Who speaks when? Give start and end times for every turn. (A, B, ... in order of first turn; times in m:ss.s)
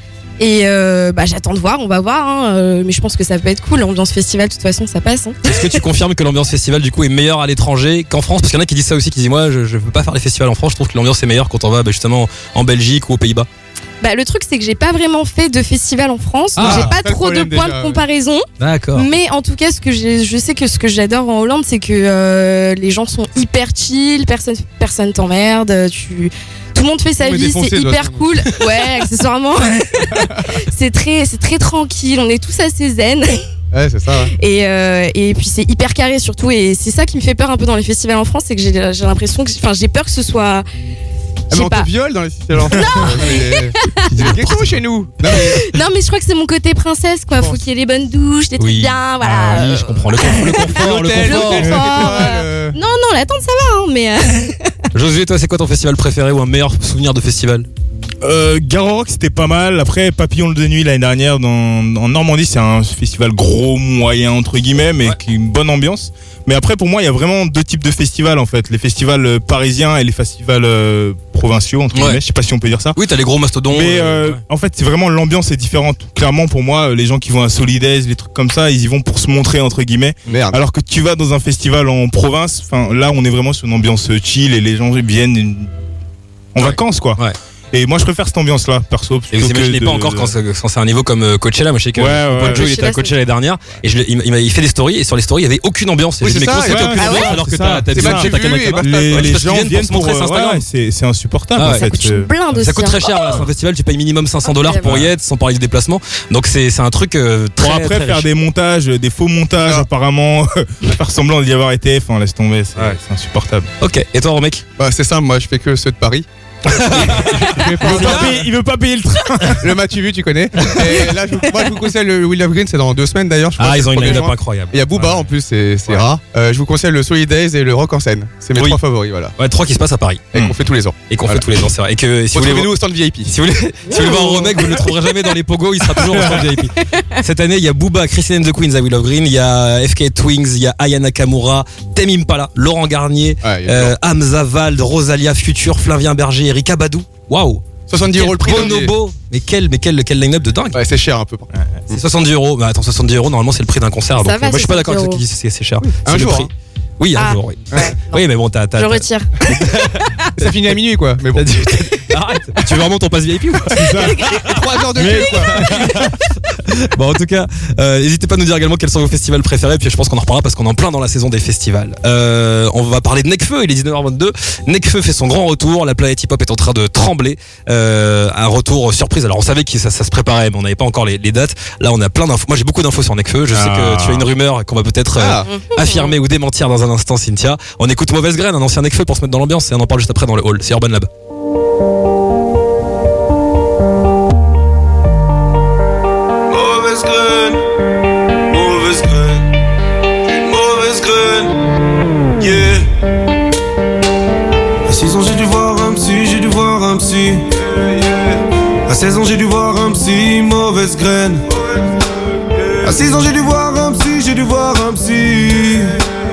0:00.4-0:05.4 A
0:05.4-0:13.5 B
0:14.0-0:33.4 A
0:16.6-0:16.9 B
0:16.6-0:18.0 C
0:18.6-0:19.1 B
0:27.2-0:28.6 C
0:33.7-0:34.3 C
0:34.4-0:40.6 A
0:41.5-0:41.9 A
0:41.5-0:45.7 C
0:42.7-0:44.1 A
0:44.2-0:44.8 B
0:45.4-0:54.8 A
0:48.6-0:51.8 B
0:50.6-0:52.8 C
0:54.9-0:57.7 B
0:58.2-1:13.0 D
1:11.9-1:12.2 B
1:13.0-1:14.4 B
1:13.7-1:25.7 D
1:20.3-1:20.6 C
1:26.5-1:27.2 D
1:26.6-1:27.4 B
1:27.7-1:30.4 D
1:29.3-1:40.6 B
1:32.0-1:32.7 D
1:32.4-1:33.2 A
1:36.2-1:39.9 C
1:36.5-1:42.3 D
1:41.6-1:41.9 B
1:41.6-1:43.5 A
1:42.6-1:48.3 B
1:44.4-1:44.9 A
1:44.8-1:45.1 D
1:47.6-1:53.7 D
1:53.8-1:54.6 B
1:54.8-1:58.5 C
1:56.7-1:58.5 B
1:57.8-1:59.7 D
1:59.6-2:09.3 C
2:00.6-2:01.1 B
2:03.6-2:04.7 B
2:04.9-2:05.3 D
2:09.4-2:10.3 B
2:10.3-2:11.5 C
2:11.1-2:12.7 B
2:12.3-2:13.3 C
2:13.3-2:30.8 B
2:13.9-2:14.6 C
2:13.9-2:14.9 A
2:16.1-2:16.4 C
2:23.4-2:24.0 C
2:27.9-2:28.9 C
2:30.7-2:32.0 C
2:31.9-2:40.8 B
2:34.2-2:35.2 A
2:35.9-2:36.5 C
2:37.2-2:38.2 A
2:38.8-2:39.3 A
2:40.4-2:41.5 C
2:41.3-3:11.1 B
2:43.7-2:44.2 D
2:44.0-2:44.5 A
2:44.4-2:45.7 C
2:45.0-2:46.0 D
3:03.5-3:04.3 D
3:05.2-3:05.5 C
3:05.4-3:06.2 A
3:16.5-3:17.6 E
3:18.5-3:19.4 E
3:20.3-3:21.5 E
3:22.4-3:22.9 E
3:24.9-3:31.5 E
3:32.8-3:36.0 E